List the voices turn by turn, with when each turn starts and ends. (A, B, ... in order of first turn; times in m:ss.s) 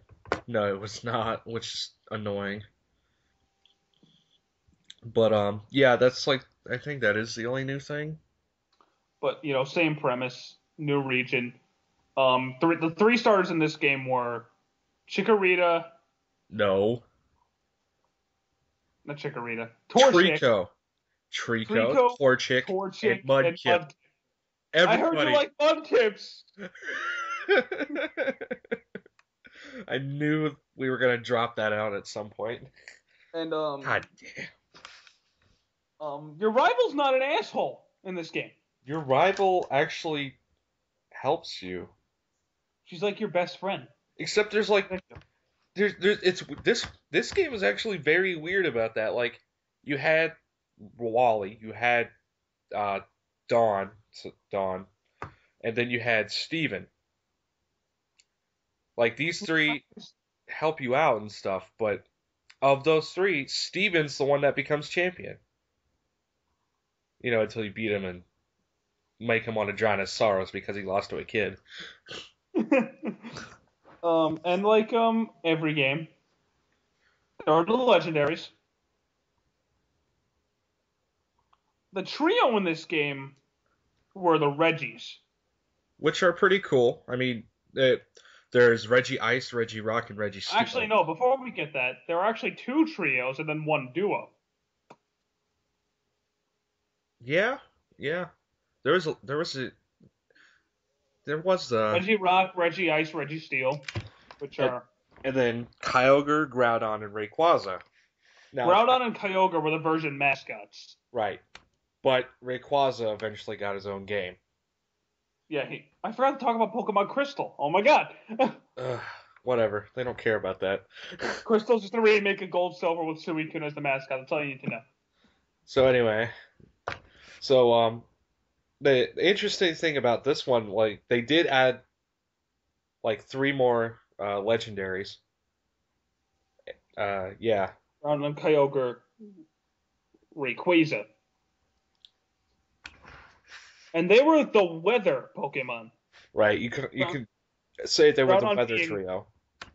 0:00.5-0:02.6 A
0:05.0-0:08.2 A
0:09.2-0:11.6 B
0:12.2-0:14.5 B
0:15.1-0:15.9 B
0:16.5-0:17.0 A
0:19.0-0:20.4 B
0:19.9-0:20.7 A
0:21.3-0:23.8 A
0:21.6-0:24.0 B
0:24.7-0:25.4 A
0:24.8-0:26.5 B
0:27.5-0:28.7 A
0:29.9-0:32.7 A
0:33.3-0:34.0 B
0:33.8-0:34.5 A
0:36.0-0:38.5 B
0:38.8-0:40.4 A
0:41.1-0:41.9 A
0:42.8-0:43.9 B
0:44.2-0:44.9 A
0:44.9-0:45.2 B
0:45.7-0:52.1 A
0:52.8-0:54.9 A
0:55.6-0:56.9 A
0:59.0-0:59.8 A
0:59.4-1:00.1 B
1:00.5-1:02.1 A
1:02.6-1:05.4 A
1:07.2-1:08.2 A
1:09.2-1:11.6 A
1:12.6-1:13.3 B
1:14.0-1:16.1 B
1:17.5-1:18.5 B
1:21.9-1:23.4 B
1:24.1-1:25.2 B
1:26.0-1:30.9 A
1:30.5-1:34.3 B
1:37.2-1:38.3 A
1:38.8-1:39.8 A
1:41.2-1:42.1 A
1:41.9-1:43.9 B
1:44.4-1:44.8 B
1:44.6-1:47.8 A
1:48.5-1:49.0 A
1:48.6-1:51.0 B
1:51.1-1:51.4 A
1:52.0-1:54.4 A
1:55.5-1:58.6 B
1:58.8-2:01.2 A
2:01.4-2:04.8 B
2:05.6-2:06.3 A
2:07.4-2:08.1 A
2:08.8-2:11.8 A
2:13.0-2:15.2 A
2:17.0-2:17.7 A
2:18.0-2:19.1 B
2:20.3-2:21.0 B
2:23.9-2:25.9 B
2:26.3-2:27.2 A
2:27.8-2:29.3 A
2:28.2-2:29.0 B